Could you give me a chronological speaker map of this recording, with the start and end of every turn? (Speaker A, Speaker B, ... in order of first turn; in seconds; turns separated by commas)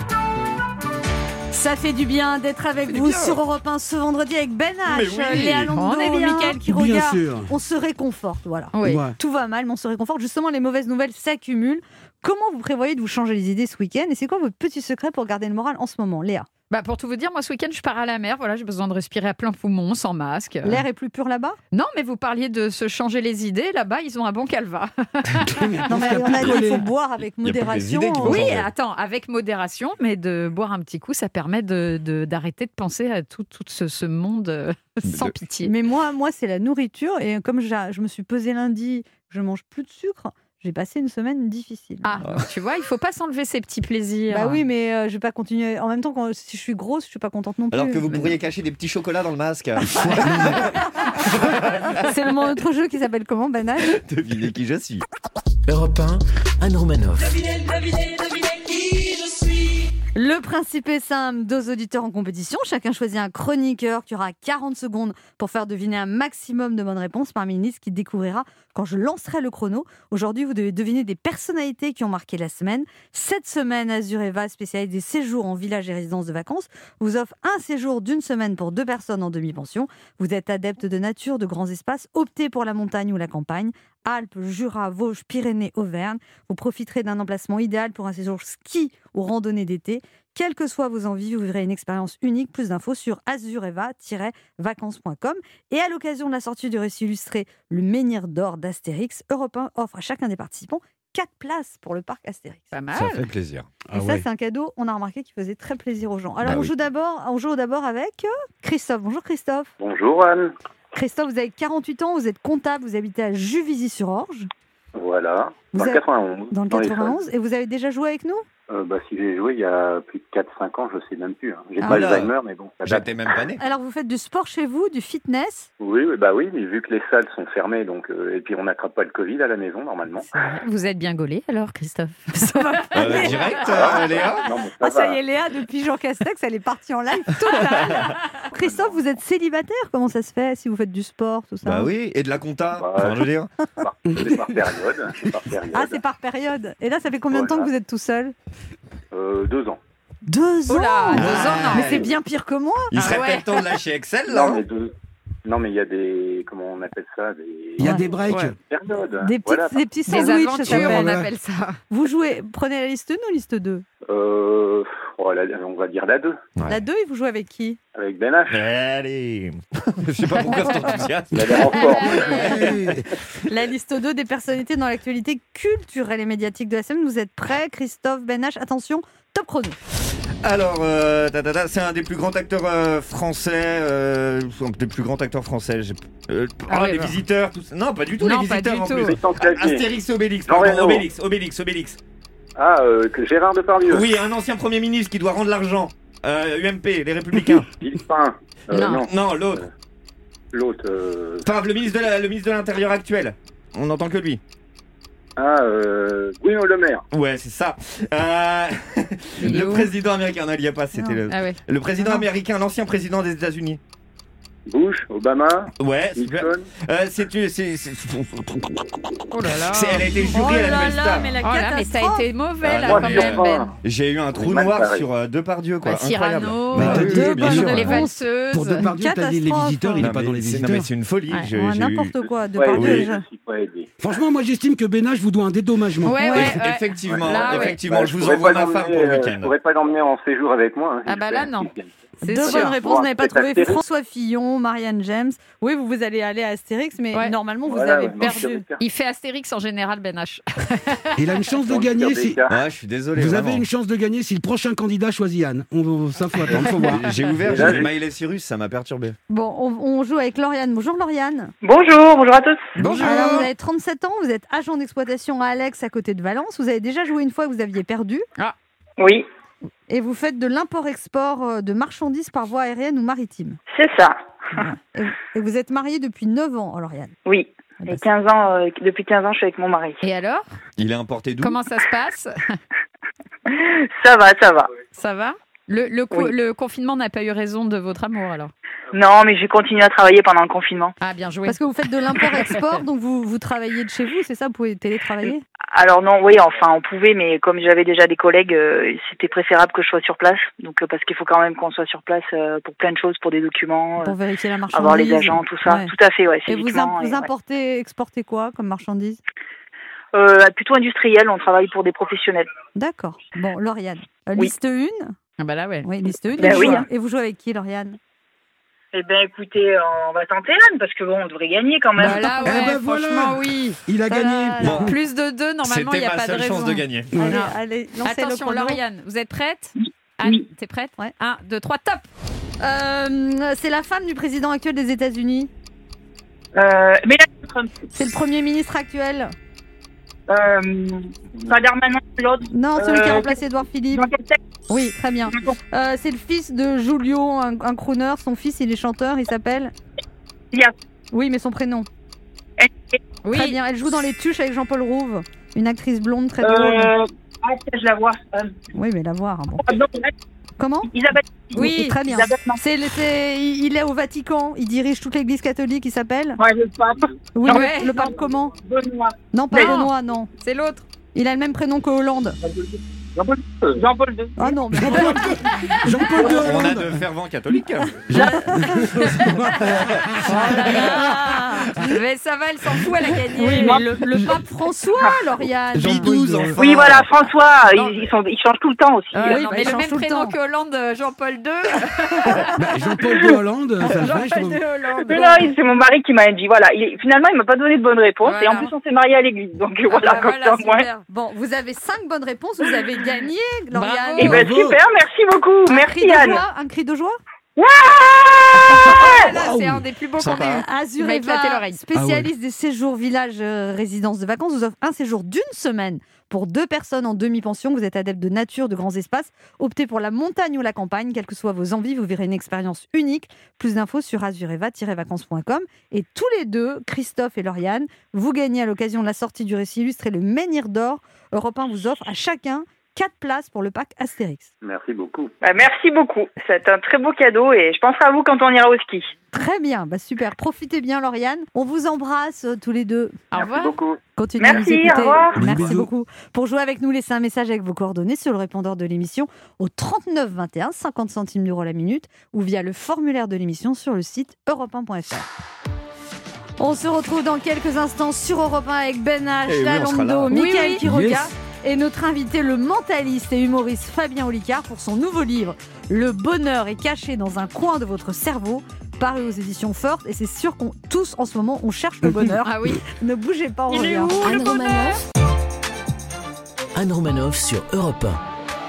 Speaker A: 1.5-16.5, Speaker B: 2.9-3.4, Speaker C: 4.8-5.7, Speaker B: 5.3-6.6, Speaker D: 6.6-7.5, Speaker B: 8.7-9.1, Speaker D: 8.8-9.1, Speaker B: 16.7-20.8, Speaker A: 20.6-21.6, Speaker B: 21.7-25.7, Speaker D: 25.4-26.8, Speaker A: 25.9-28.6, Speaker C: 27.4-28.7, Speaker B: 28.2-35.7, Speaker C: 35.0-35.3, Speaker A: 35.6-42.1, Speaker B: 42.0-44.6, Speaker A: 44.3-48.0, Speaker C: 47.7-52.0, Speaker A: 52.0-54.0, Speaker C: 53.9-55.0, Speaker E: 55.7-57.4, Speaker A: 60.1-102.7, Speaker B: 102.7-103.3, Speaker D: 103.0-103.3, Speaker C: 103.0-103.7, Speaker D: 103.9-104.2, Speaker A: 103.9-109.7, Speaker F: 109.8-110.5, Speaker A: 110.9-114.5, Speaker F: 115.0-117.2, Speaker A: 115.7-118.5, Speaker F: 118.7-123.1, Speaker A: 121.8-122.1, Speaker C: 121.8-123.6, Speaker A: 123.6-125.7, Speaker F: 125.8-130.3, Speaker B: 130.3-132.8, Speaker A: 132.3-134.2, Speaker C: 132.9-134.5, Speaker F: 133.1-135.2, Speaker A: 134.8-141.9, Speaker B: 137.4-138.2, Speaker C: 141.6-143.5, Speaker F: 142.8-146.0, Speaker A: 145.7-148.3, Speaker F: 147.3-147.7, Speaker F: 149.1-149.8, Speaker A: 150.2-152.9, Speaker B: 150.7-152.1, Speaker C: 151.2-152.1, Speaker C: 152.9-154.6, Speaker B: 152.9-153.6, Speaker F: 154.3-154.9, Speaker F: 155.4-159.9, Speaker D: 157.8-158.6, Speaker B: 158.3-158.5, Speaker A: 159.2-161.2, Speaker B: 160.1-161.8, Speaker D: 160.6-161.3, Speaker A: 161.9-163.8, Speaker F: 164.1-166.4, Speaker A: 166.7-167.8, Speaker F: 167.9-168.7, Speaker C: 168.5-172.7, Speaker F: 171.3-172.6, Speaker B: 171.8-172.5, Speaker D: 172.5-173.1, Speaker A: 173.4-179.8, Speaker C: 180.4-192.0, Speaker B: 186.7-187.2, Speaker B: 188.2-189.2, Speaker F: 188.9-189.9, Speaker F: 190.5-191.1, Speaker F: 192.6-194.1, Speaker C: 193.8-197.7, Speaker F: 197.8-199.7, Speaker B: 198.7-199.0, Speaker C: 199.1-199.6, Speaker F: 200.5-201.5, Speaker C: 201.4-204.4, Speaker F: 205.4-207.0, Speaker C: 207.1-213.8, Speaker B: 209.4-209.9, Speaker B: 211.3-211.6, Speaker F: 214.7-216.7, Speaker C: 215.8-221.3, Speaker B: 219.3-220.1, Speaker A: 220.3-222.3, Speaker B: 221.4-223.7, Speaker C: 222.6-228.0, Speaker F: 222.7-223.7, Speaker F: 224.3-225.1, Speaker B: 225.8-228.8, Speaker D: 226.7-230.9, Speaker A: 226.9-228.1, Speaker A: 228.8-230.1, Speaker C: 230.0-232.1, Speaker A: 231.5-233.2, Speaker F: 232.4-233.9, Speaker C: 232.7-233.1, Speaker D: 234.0-236.5, Speaker B: 236.0-237.8, Speaker C: 236.3-239.5, Speaker F: 237.1-243.8, Speaker B: 241.1-241.7, Speaker A: 242.2-248.6, Speaker B: 242.3-242.7, Speaker F: 247.7-248.8, Speaker B: 248.8-251.2, Speaker D: 251.2-252.4, Speaker F: 251.7-252.6, Speaker C: 252.5-253.6, Speaker D: 253.2-257.1, Speaker C: 256.6-259.2, Speaker F: 257.4-257.9, Speaker A: 259.3-261.5, Speaker G: 261.6-262.8, Speaker D: 262.8-263.5, Speaker A: 262.9-268.2, Speaker G: 269.0-269.2, Speaker A: 269.9-273.6, Speaker G: 273.7-274.2, Speaker A: 274.6-277.1, Speaker G: 277.2-280.0, Speaker B: 280.0-280.5, Speaker C: 280.8-281.6, Speaker B: 281.4-282.6, Speaker G: 283.5-284.7, Speaker B: 284.9-288.5, Speaker G: 288.9-290.9, Speaker B: 291.0-291.6, Speaker A: 291.4-295.4, Speaker B: 292.1-292.6, Speaker G: 295.7-304.1, Speaker A: 304.0-305.9, Speaker G: 304.7-307.3, Speaker A: 306.4-309.2, Speaker G: 310.1-312.5, Speaker A: 312.7-315.1, Speaker B: 315.4-316.8, Speaker A: 315.8-318.0, Speaker G: 316.4-316.9, Speaker G: 318.9-322.8, Speaker B: 322.0-323.8, Speaker D: 322.0-324.9, Speaker A: 324.1-324.9, Speaker C: 324.6-324.9, Speaker B: 324.7-332.1, Speaker C: 325.6-327.1, Speaker D: 327.1-327.4, Speaker A: 327.2-328.8, Speaker A: 332.6-335.5, Speaker G: 336.5-337.8, Speaker A: 337.9-339.3, Speaker G: 340.3-343.4, Speaker A: 342.4-344.1, Speaker G: 343.9-344.4, Speaker A: 344.7-349.7, Speaker A: 351.1-351.9, Speaker G: 352.6-353.0, Speaker B: 353.2-353.6, Speaker A: 353.3-356.9, Speaker G: 356.4-358.6, Speaker A: 358.7-359.8, Speaker G: 359.6-360.1, Speaker A: 360.6-360.9, Speaker G: 360.9-362.6, Speaker A: 361.5-366.4, Speaker B: 361.5-362.0, Speaker G: 366.4-369.8, Speaker A: 367.3-368.6, Speaker B: 367.4-368.1, Speaker A: 369.3-370.3, Speaker B: 369.5-370.9, Speaker A: 371.1-372.4, Speaker G: 373.3-374.6, Speaker A: 374.4-376.4, Speaker D: 374.7-377.0, Speaker C: 376.4-378.0, Speaker D: 378.1-381.0, Speaker B: 378.1-383.8, Speaker A: 378.1-379.2, Speaker A: 380.3-381.9, Speaker A: 383.4-386.5, Speaker D: 385.7-386.6, Speaker C: 385.8-387.1, Speaker G: 386.6-389.4, Speaker B: 387.7-388.1, Speaker B: 389.1-392.6, Speaker A: 389.2-390.3, Speaker D: 392.6-394.6, Speaker B: 393.8-395.5, Speaker A: 394.9-395.2, Speaker G: 395.1-400.9, Speaker B: 398.2-398.7, Speaker B: 399.9-401.1, Speaker A: 401.1-404.4, Speaker B: 403.7-404.4, Speaker D: 404.2-404.8, Speaker G: 404.2-406.4, Speaker A: 405.7-407.2, Speaker G: 407.6-409.3, Speaker B: 408.7-411.8, Speaker D: 409.3-409.8, Speaker C: 410.2-410.6, Speaker A: 410.5-434.5, Speaker D: 411.9-412.3, Speaker F: 434.6-435.3, Speaker G: 435.4-439.1, Speaker A: 439.3-443.2, Speaker B: 443.3-443.8, Speaker F: 443.3-444.0, Speaker A: 444.2-455.3, Speaker G: 444.4-445.4, Speaker D: 445.4-445.9, Speaker A: 456.6-474.3, Speaker C: 459.4-460.3, Speaker B: 460.3-460.9, Speaker D: 460.8-461.3, Speaker B: 472.4-472.8, Speaker G: 473.7-474.7, Speaker B: 474.2-474.9, Speaker E: 474.2-475.0, Speaker E: 476.8-478.2